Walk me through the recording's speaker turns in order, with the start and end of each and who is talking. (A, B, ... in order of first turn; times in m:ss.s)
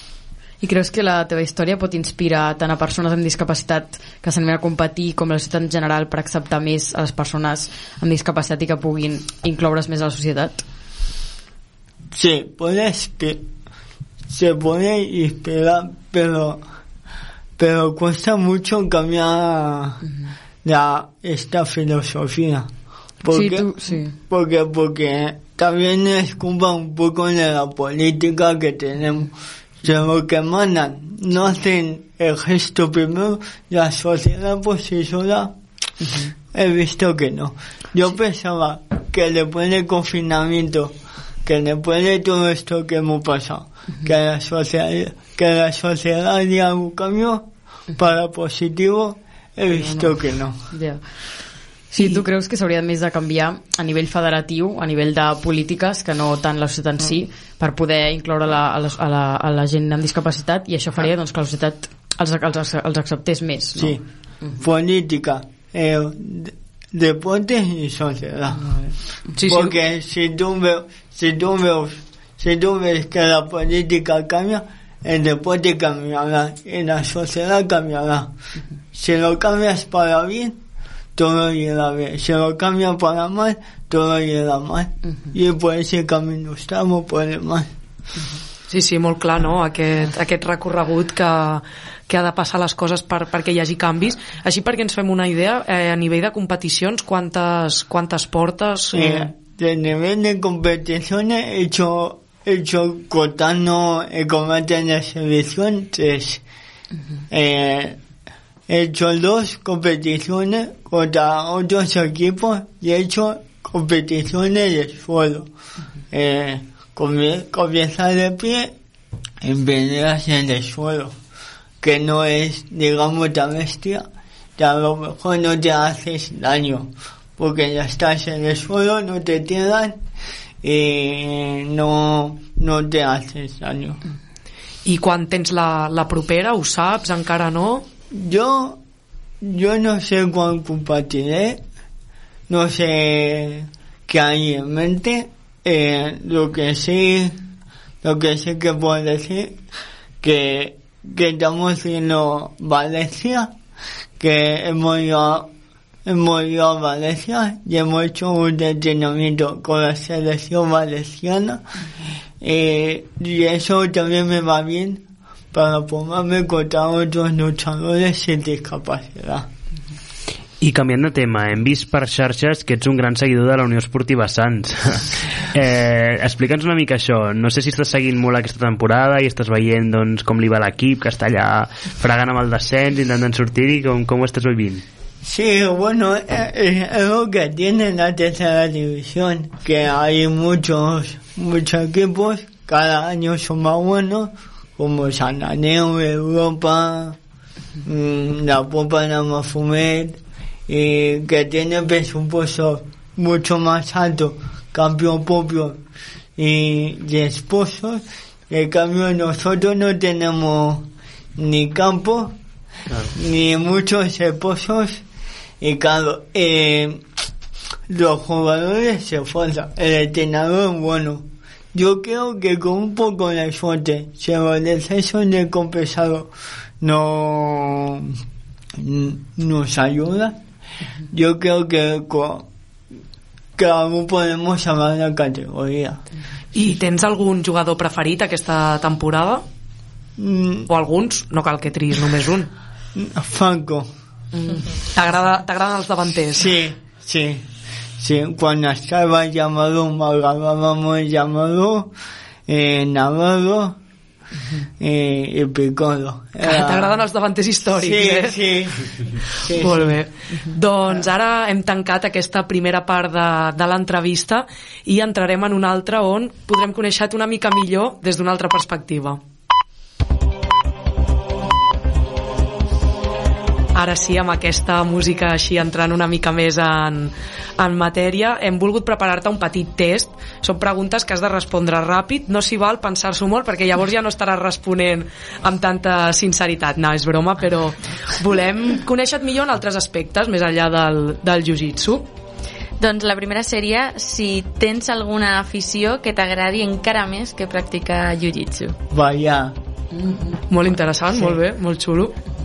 0:00.6-0:10.6 A
0:12.1-0:13.4 B
0:14.3-0:16.6 B
0:17.6-0:20.0 B
0:20.6-0:22.7 B
0:23.2-0:35.5 B
0:23.3-0:24.2 A
0:36.5-0:50.6 B
0:49.7-0:50.1 A
0:50.7-0:51.1 A
0:51.9-1:03.9 A
1:03.8-1:04.0 B
1:04.6-1:08.7 B
1:09.4-1:09.7 C
1:09.4-1:18.3 B
1:18.9-1:20.6 B
1:21.2-1:27.7 B
1:28.7-1:39.3 C
1:38.9-1:46.4 B
1:47.3-1:48.0 B
1:48.7-1:55.5 B
1:56.1-1:58.7 B
1:59.4-2:01.2 B
2:01.8-2:10.0 B
2:10.6-2:14.0 B
2:14.8-2:17.8 C
2:18.1-2:18.8 B
2:19.4-2:21.6 B
2:22.5-2:27.4 B
2:28.0-2:29.6 B
2:30.2-2:33.5 B
2:34.2-2:35.5 B
2:36.0-2:41.6 B
2:42.4-2:49.5 B
2:50.6-3:04.8 D
3:05.2-3:17.2 B
3:17.8-3:25.8 B
3:26.4-3:32.3 B
3:33.1-3:35.0 B
3:35.6-3:37.0 B
3:37.9-3:48.2 B
3:48.8-3:50.4 B
3:51.1-3:52.5 B
3:53.6-3:56.0 B
3:56.5-3:59.4 C
4:00.2-4:00.7 B
4:00.7-4:02.5 C
4:02.9-4:03.9 B
4:04.9-4:06.6 C
4:06.4-4:07.5 B
4:08.0-4:11.9 B
4:12.5-4:13.8 B
4:14.8-4:17.0 B
4:16.4-4:18.4 C
4:17.7-4:18.8 B
4:19.4-4:20.0 B
4:19.5-4:29.2 C
4:33.7-4:52.1 C
4:52.8-4:58.8 E
4:58.9-4:59.5 B
4:59.9-5:00.4 A
5:00.5-5:02.1 C